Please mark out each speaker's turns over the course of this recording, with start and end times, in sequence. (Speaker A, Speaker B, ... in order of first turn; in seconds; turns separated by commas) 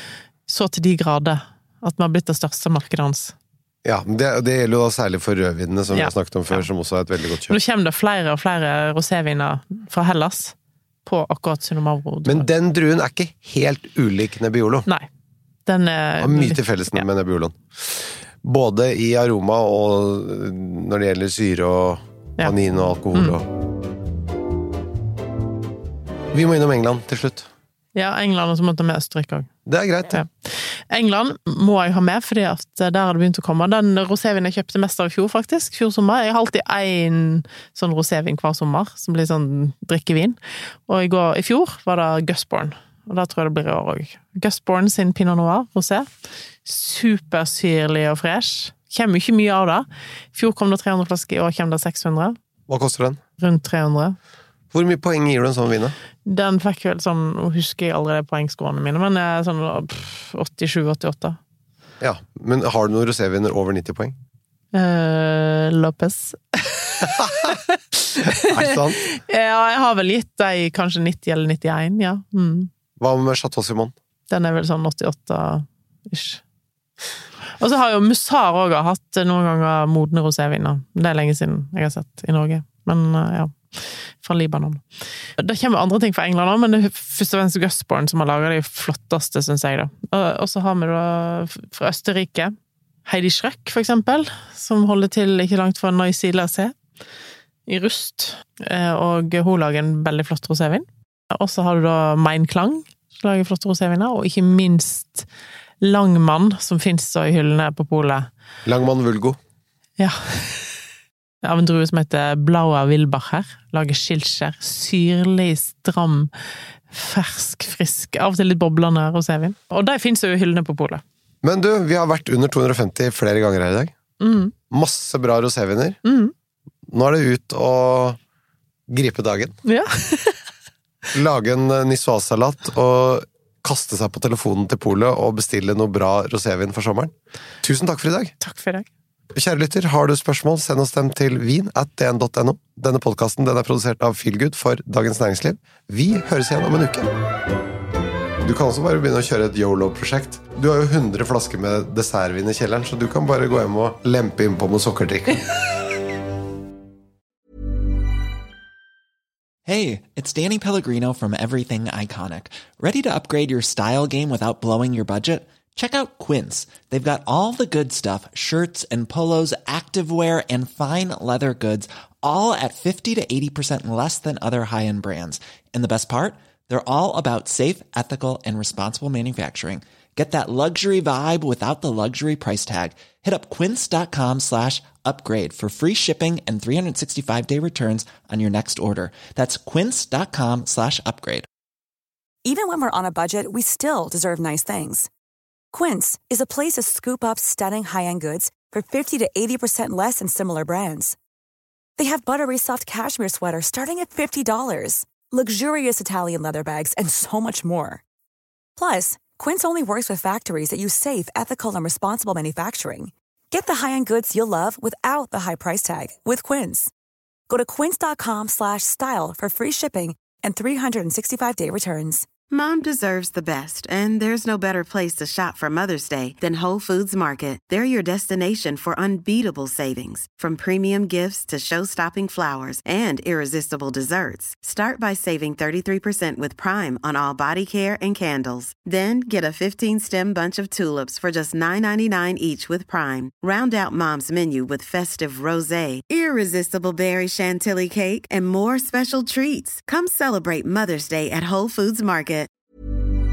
Speaker A: 0.5-3.4, Speaker B: 3.8-7.6, Speaker A: 5.9-6.7, Speaker A: 7.5-12.5, Speaker B: 12.2-14.9, Speaker A: 15.7-17.1, Speaker B: 16.2-23.5, Speaker B: 26.3-27.5, Speaker A: 27.9-29.5, Speaker B: 29.7-30.2, Speaker A: 30.1-46.1, Speaker A: 46.6-52.4, Speaker B: 52.7-53.2, Speaker A: 53.4-54.2, Speaker B: 54.7-56.0, Speaker A: 56.2-61.4, Speaker B: 62.0-64.2, Speaker A: 64.7-72.7, Speaker B: 67.0-67.6, Speaker B: 68.2-69.0, Speaker B: 73.0-73.9, Speaker A: 74.3-76.4, Speaker A: 77.6-84.8, Speaker A: 85.4-92.5, Speaker A: 93.1-96.8, Speaker A: 97.7-105.3, Speaker A: 105.8-108.3, Speaker B: 108.7-109.4, Speaker A: 110.0-110.7, Speaker A: 111.4-116.3, Speaker A: 116.9-121.0, Speaker B: 121.4-123.9, Speaker A: 124.2-124.5, Speaker B: 124.7-126.0, Speaker A: 126.0-126.3, Speaker B: 126.9-128.2, Speaker B: 128.9-129.6, Speaker A: 129.7-130.4, Speaker B: 131.1-138.3, Speaker A: 138.4-138.9, Speaker B: 139.3-147.1, Speaker B: 148.4-155.5, Speaker C: 159.7-191.5, Speaker D: 192.4-195.1, Speaker D: 195.7-201.2, Speaker D: 202.0-208.0, Speaker D: 208.8-216.9, Speaker D: 217.5-222.3, Speaker E: 222.5-252.5